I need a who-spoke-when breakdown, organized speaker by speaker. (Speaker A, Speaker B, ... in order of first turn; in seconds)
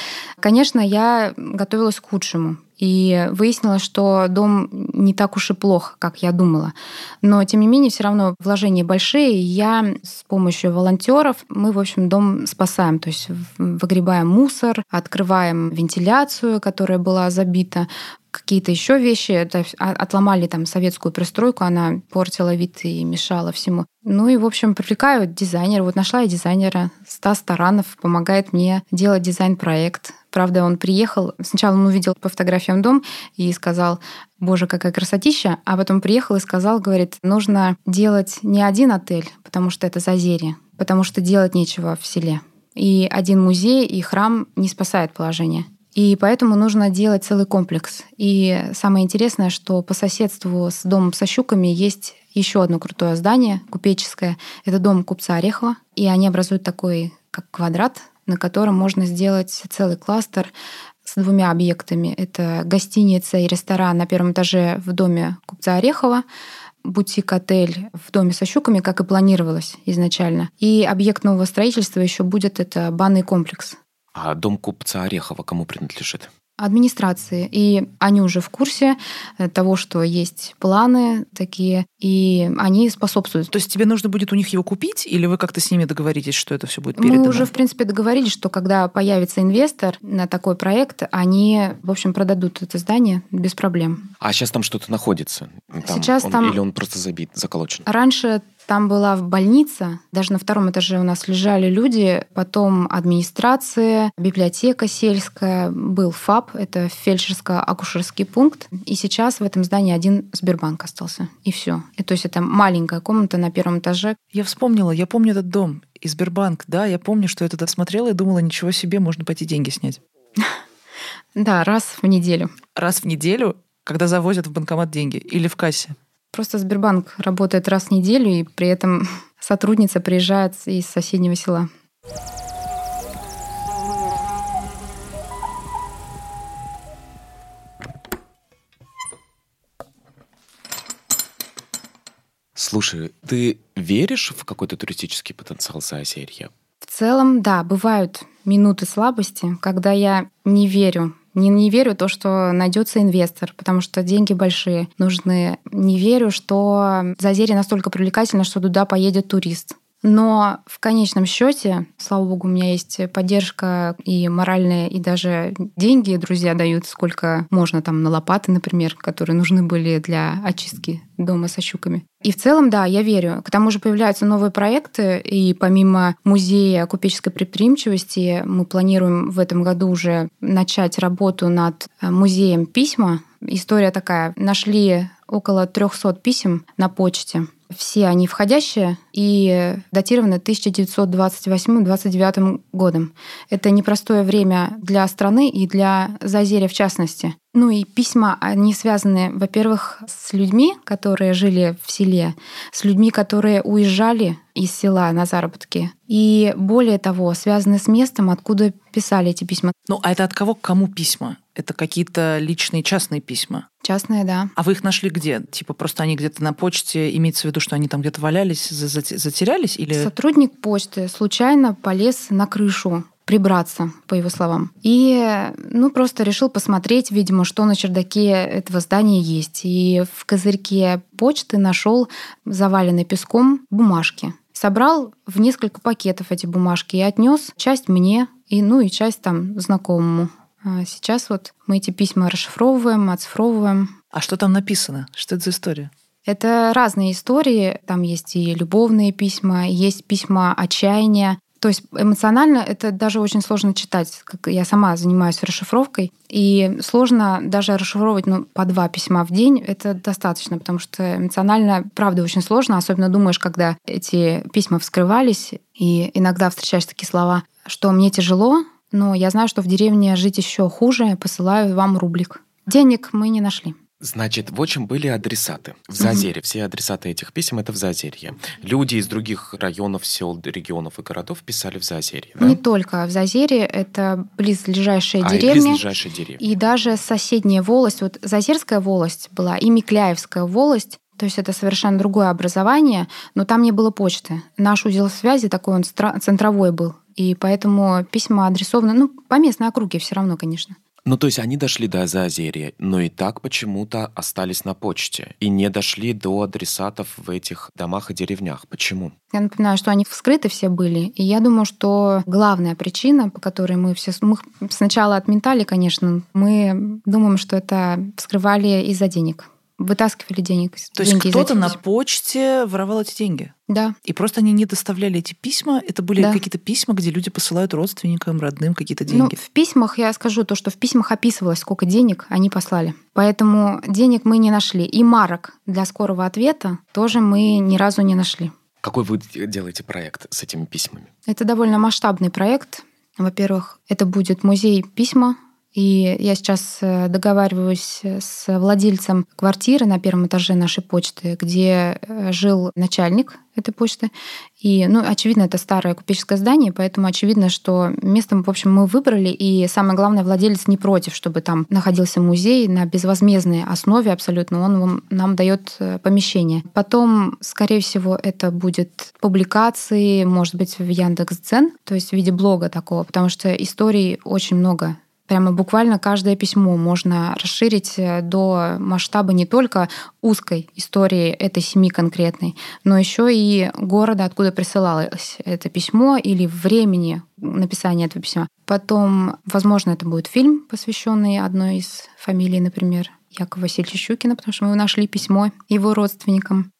Speaker A: 0.4-60.5, 61.0-66.2, 66.8-73.8, 76.6-83.5, 87.0-94.0, 95.8-96.6, 97.9-114.2, 121.4-122.5, 126.3-131.7, 146.8-209.7, 213.8-214.5, 219.9-243.9, 246.3-273.8, 282.4-285.8, 286.4-300.8, 309.3-321.8, 323.7-324.0, 326.2-326.4, 329.1-338.5, 341.3-396.7
Speaker B: 74.2-76.3, 94.2-97.9, 142.6-146.5, 274.0-282.6, 285.2-286.5, 301.1-309.1, 338.8-341.1
Speaker C: 83.5-87.5, 114.3-120.0, 122.8-126.0, 209.9-213.7, 214.6-220.1, 244.1-245.9, 321.0-323.5, 324.1-329.4